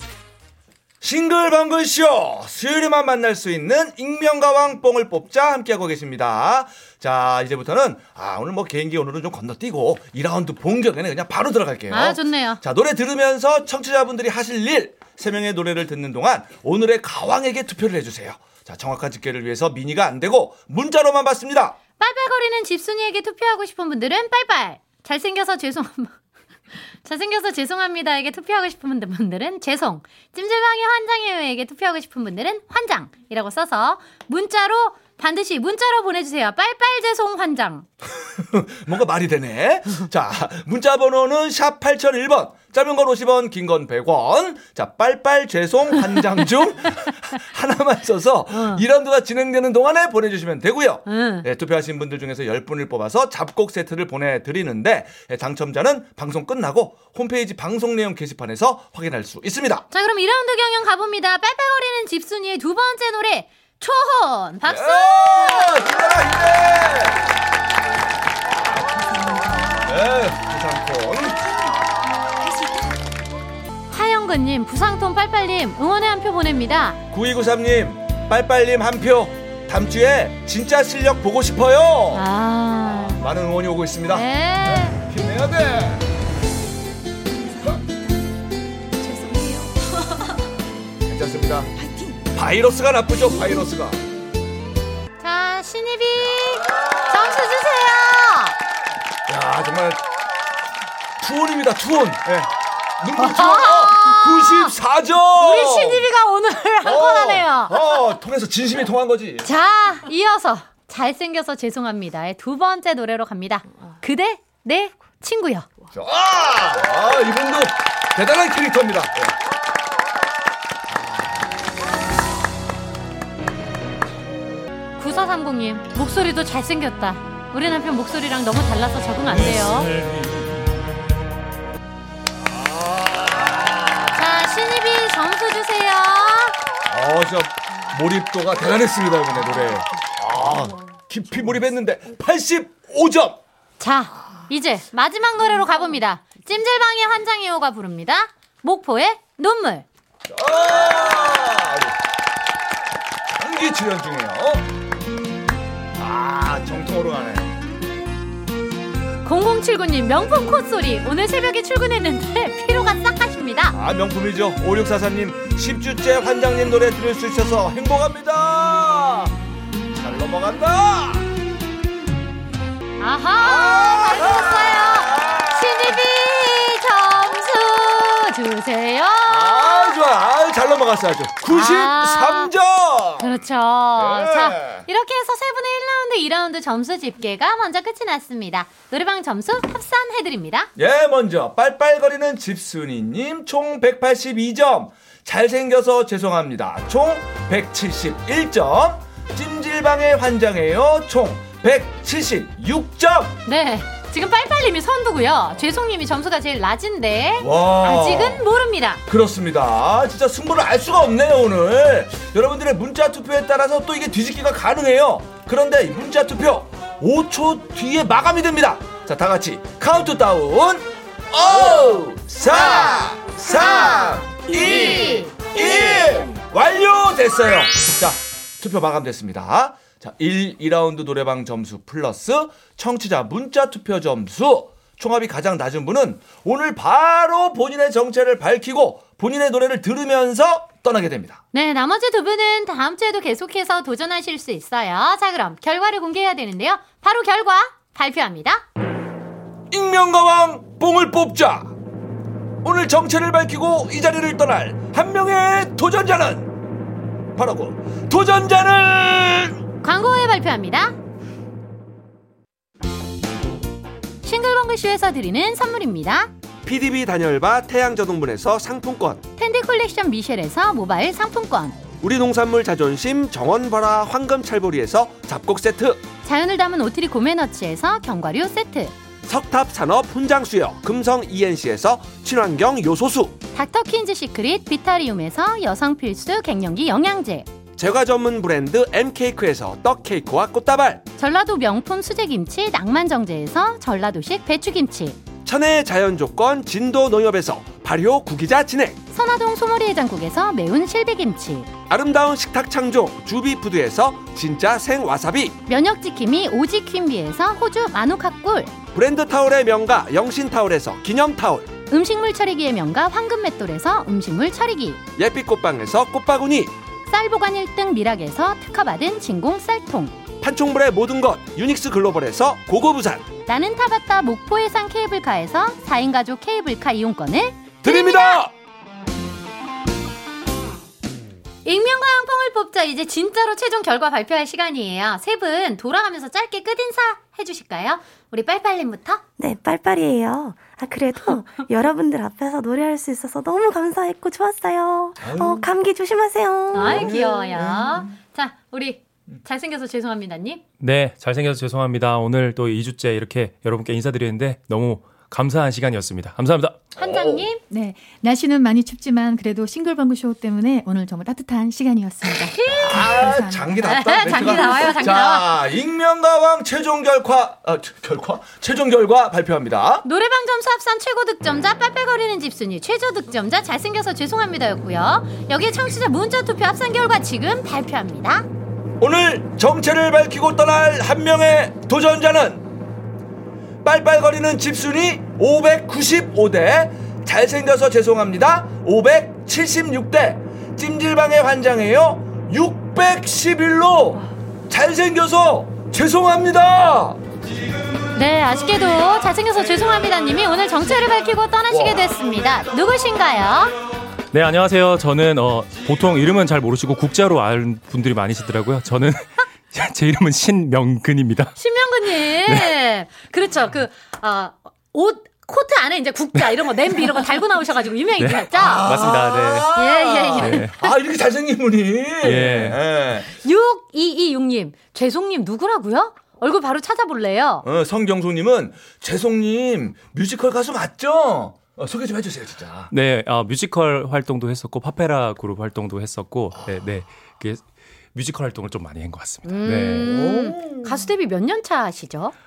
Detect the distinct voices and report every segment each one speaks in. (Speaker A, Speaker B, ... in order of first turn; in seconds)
Speaker A: 1.0-21.8, 38.2-59.9, 64.7-67.2, 69.2-71.8, 77.1-82.3, 82.8-86.1, 91.0-91.7, 92.3-94.0, 96.2-97.6, 99.3-100.0, 101.2-106.1, 106.8-109.5, 115.9-119.3, 120.9-121.2, 129.2-130.6, 132.5-134.0, 136.9-143.4, 150.3-151.9, 153.3-154.7, 156.0-157.5, 163.7-169.3, 169.9-171.3, 173.4-176.0, 179.3-183.3, 183.9-184.9, 190.8-203.4, 207.4-208.5, 209.1-241.4, 249.7-251.7, 252.6-256.5, 257.4-259.6, 327.8-328.5, 345.2-345.7, 346.7-347.9, 357.0-357.5, 362.8-370.1, 379.0-382.6, 383.8-397.2, 401.7-402.2, 418.6-423.3, 427.6-432.9, 440.0-441.1
Speaker B: 11.9-12.6, 22.0-26.1, 26.9-37.9, 48.5-48.8, 51.1-51.5, 59.9-65.8, 73.9-77.0, 82.1-83.2, 84.1-85.0, 95.2-98.6, 103.2-104.7, 105.4-107.8, 109.4-115.7, 125.0-129.9, 134.1-136.6, 143.8-149.9, 159.2-163.8, 173.0-180.0, 181.5-182.5, 183.2-190.7, 203.5-209.0, 222.4-225.6, 241.5-248.6, 259.8-260.9, 264.2-266.3, 269.4-271.8, 276.2-278.9, 283.5-287.5, 291.2-295.2, 299.1-301.7, 305.7-308.7, 311.9-315.0, 317.1-320.1, 323.5-328.5, 331.6-339.2, 346.7-350.6, 357.0-357.6, 362.5-363.1, 363.8-365.6, 370.1-378.5, 398.1-403.8, 411.6-418.9, 419.7-420.9, 423.2-427.7, 439.4-442.3
Speaker C: 89.2-89.7, 357.7-363.7
Speaker D: 266.7-269.2, 272.0-276.0, 279.3-283.3, 287.8-291.0, 295.5-298.9, 301.9-305.5, 309.0-311.7, 315.2-316.7, 320.4-323.2
Speaker E: 339.4-347.2
Speaker F: 350.8-356.8, 404.3-411.6, 412.2-412.8, 418.2-419.8, 420.3-420.7, 422.2-422.8, 432.9-437.6, 438.1-440.1